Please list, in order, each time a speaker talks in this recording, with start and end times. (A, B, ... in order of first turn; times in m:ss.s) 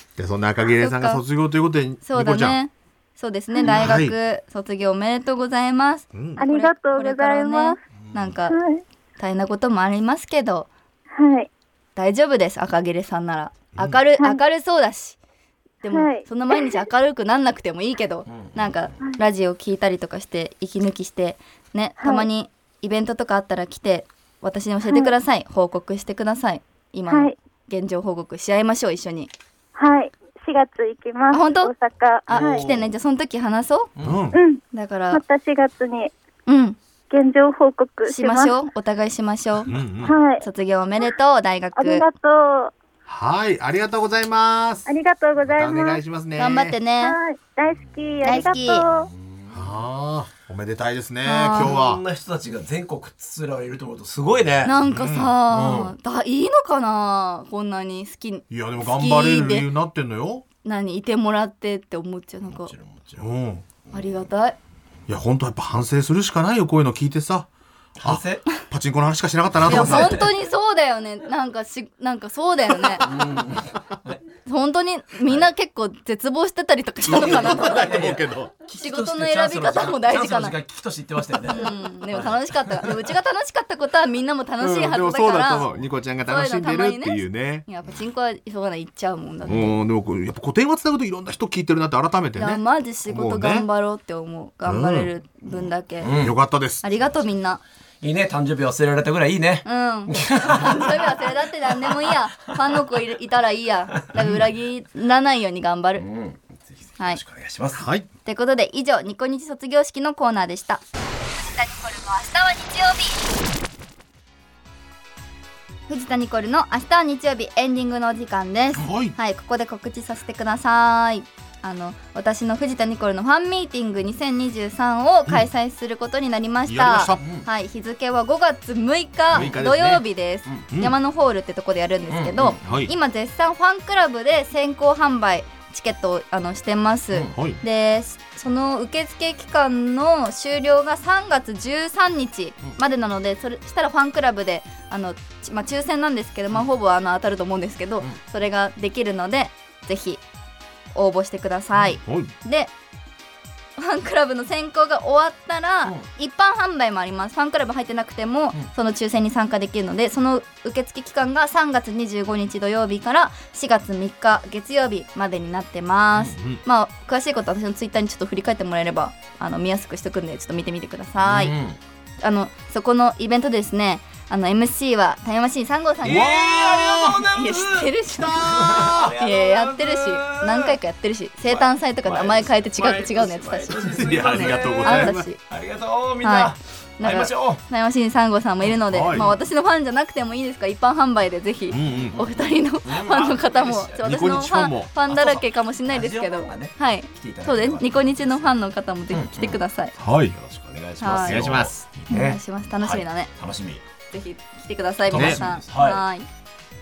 0:00.2-0:02.6 A
0:00.8-0:01.2 B
0:02.0-0:08.6 B
0:03.7-0:04.1 A
0:06.1-0:06.4 A
0:06.4-0:07.8 C
0:08.0-0:08.3 D
0:08.5-0:08.8 C
0:09.2-0:10.7 B
0:11.1-0:11.5 C
0:12.0-0:15.2 B
0:15.8-0:29.3 B
0:15.9-0:16.8 C
0:18.3-0:19.0 D
0:22.0-0:22.3 C
0:24.9-0:25.1 C
0:27.1-0:27.4 C
0:29.8-0:32.7 C
0:31.3-0:31.7 B
0:32.3-0:32.9 D
0:32.3-0:33.9 B
0:34.0-0:34.4 A
0:34.3-0:36.1 C
0:34.7-0:35.2 B
0:36.5-0:36.8 B
0:37.1-0:38.5 C
0:38.0-0:39.7 B
0:39.7-0:40.2 A
0:40.0-0:40.4 C
0:40.4-0:42.0 B
0:41.8-0:42.7 C
0:43.0-0:44.9 A
0:44.9-0:46.0 C
0:45.5-0:46.8 A
0:46.4-0:47.2 B
0:47.0-0:49.1 C
0:48.2-0:48.9 B
0:48.9-0:49.7 D
0:49.5-0:52.0 A
0:51.2-0:51.8 B
0:51.4-0:54.7 D
0:54.6-0:59.7 B
0:54.8-0:55.3 A
0:55.5-0:55.9 D
0:58.5-1:00.4 A
1:00.6-1:02.7 B
1:02.5-1:03.3 D
1:03.2-1:03.6 A
1:03.8-1:04.3 D
1:03.9-1:04.6 B
1:05.1-1:07.5 A
1:08.0-1:08.4 D
1:08.0-1:10.2 A
1:09.6-1:10.3 D
1:09.7-1:13.1 B
1:13.0-1:14.2 D
1:14.4-1:17.9 B
1:17.0-1:18.5 A
1:17.1-1:23.1 D
1:18.7-1:20.6 B
1:21.5-1:25.7 B
1:24.6-1:27.6 A
1:26.2-1:29.7 B
1:29.4-1:33.7 A
1:32.4-1:36.2 B
1:34.6-1:35.1 A
1:36.0-1:36.3 D
1:36.2-1:37.0 A
1:36.8-1:37.6 B
1:38.0-1:41.2 D
1:39.6-1:46.0 B
1:41.8-1:42.2 D
1:44.2-1:44.4 A
1:46.0-1:47.9 D
1:47.7-1:48.1 A
1:48.2-1:50.8 B
1:51.4-1:53.3 B
1:55.9-2:30.2 B
1:58.7-1:59.2 A
2:06.6-2:07.2 A
2:07.2-2:07.5 D
2:09.3-2:10.0 A
2:10.7-2:11.0 A
2:12.1-2:12.6 D
2:12.6-2:12.9 A
2:17.3-2:17.6 A
2:30.9-2:32.7 B
2:32.0-2:32.3 A
2:33.8-2:51.5 B
2:51.2-2:51.8 D
2:52.2-2:56.4 B
2:56.0-2:57.3 A
2:56.0-3:00.8 D
2:57.3-3:05.4 B
2:58.1-2:59.1 A
3:01.4-3:07.6 D
3:03.8-3:05.3 A
3:06.2-3:19.9 B
3:08.9-3:09.3 A
3:11.7-3:12.2 A
3:11.8-3:14.3 D
3:14.0-3:14.9 A
3:15.1-3:18.5 D
3:19.1-3:19.6 D
3:20.0-3:20.3 A
3:20.3-3:23.8 D
3:21.0-3:21.5 B
3:21.2-3:21.8 A
3:22.1-3:23.3 B
3:24.1-3:26.2 B
3:25.1-3:26.0 D
3:25.1-3:25.4 A